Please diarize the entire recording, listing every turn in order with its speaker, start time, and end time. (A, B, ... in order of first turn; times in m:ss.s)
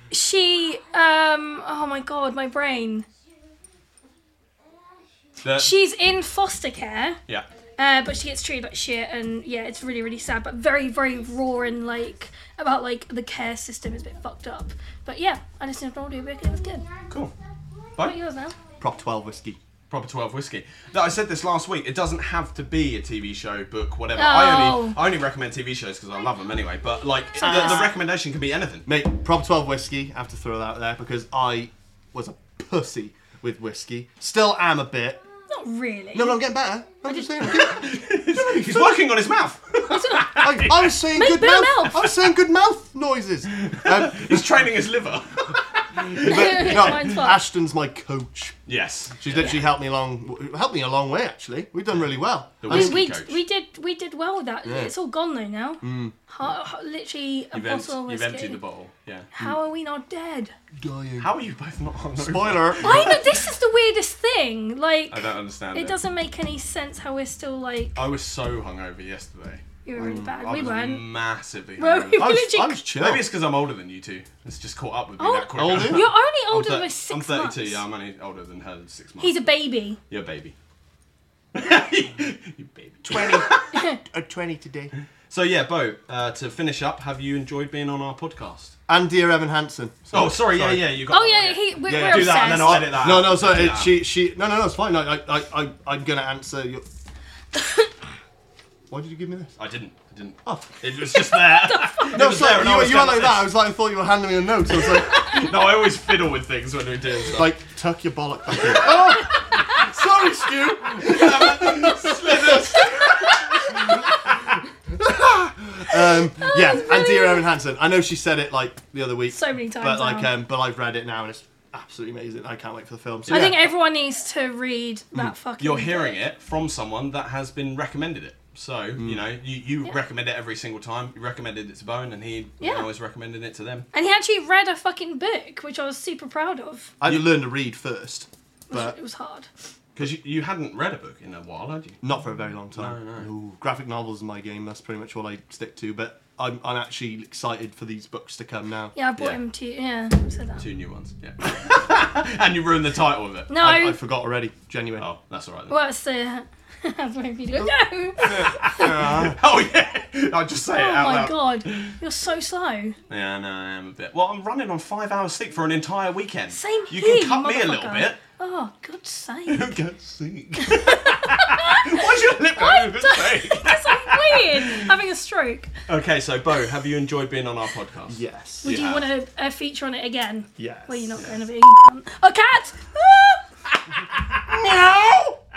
0:00.1-0:03.0 A
0:05.4-0:05.7 B
0:05.6-0:07.2 A
0:07.8-0:16.8 A
0:17.1-0:17.3 B
0:18.0-0:18.6 A
0:18.8-0:19.6 C
0:19.9-0:28.9 B
0:24.2-0:25.0 A
0:27.4-0:27.9 C
0:27.4-0:27.9 A
0:28.8-0:35.2 C
0:35.5-0:36.4 A
0:36.1-0:38.9 C
0:37.4-0:40.9 B
0:39.9-0:42.0 A
0:40.4-0:44.4 C
0:43.5-0:47.1 B
0:46.1-0:48.6 C
0:46.2-0:47.4 A
0:48.6-0:49.6 B
0:49.2-0:53.0 C
0:52.6-0:53.4 B
0:52.7-0:58.6 A
0:54.6-0:54.9 C
0:55.8-0:56.2 C
0:57.5-0:59.3 B
0:59.3-1:00.5 A
1:00.8-1:01.3 C
1:01.2-1:03.3 B
1:02.2-1:03.2 C
1:02.8-1:08.0 A
1:05.1-1:06.0 B
1:07.9-1:12.4 B
1:09.8-1:11.0 A
1:10.0-1:10.4 C
1:11.8-1:12.8 A
1:12.1-1:13.3 C
1:13.0-1:19.5 B
1:15.2-1:17.8 A
1:15.5-1:16.1 C
1:19.2-1:20.0 A
1:20.1-1:20.5 B
1:21.5-1:23.8 B
1:23.0-1:24.9 C
1:23.7-1:24.0 A
1:25.3-1:28.8 B
1:28.9-1:30.9 C
1:30.1-1:34.0 B
1:31.1-1:32.9 A
1:31.8-1:36.8 C
1:37.5-1:37.8 A
1:38.9-1:39.5 C
1:39.6-1:43.5 B
1:40.4-1:40.8 C
1:41.4-1:42.3 A
1:42.1-1:45.2 C
1:44.8-1:47.6 B
1:47.3-2:03.7 C
1:51.0-1:54.6 B
1:56.4-1:57.4 A
1:59.3-2:00.3 A
2:03.3-2:03.6 B
2:03.3-2:06.2 A
2:05.6-2:13.9 B
2:09.0-2:09.2 C
2:12.6-2:12.9 A
2:13.9-2:16.9 A
2:17.0-2:19.0 C
2:18.7-2:19.5 A
2:20.0-2:22.0 B
2:22.0-2:28.9 C
2:22.7-2:23.3 B
2:28.9-2:30.6 A
2:30.6-2:33.5 B
2:33.5-2:34.0 A
2:33.6-2:35.1 C
2:35.0-2:35.8 B
2:35.7-2:39.1 A
2:38.2-2:41.9 B
2:38.8-2:39.4 C
2:40.7-2:43.0 A
2:43.1-2:48.2 B
2:46.5-2:49.8 A
2:49.5-2:54.9 B
2:50.6-2:55.7 A
2:55.9-2:59.0 B
2:58.1-2:58.7 C
2:58.6-3:03.4 A
3:00.6-3:01.2 C
3:03.9-3:05.4 B
3:04.5-3:05.0 A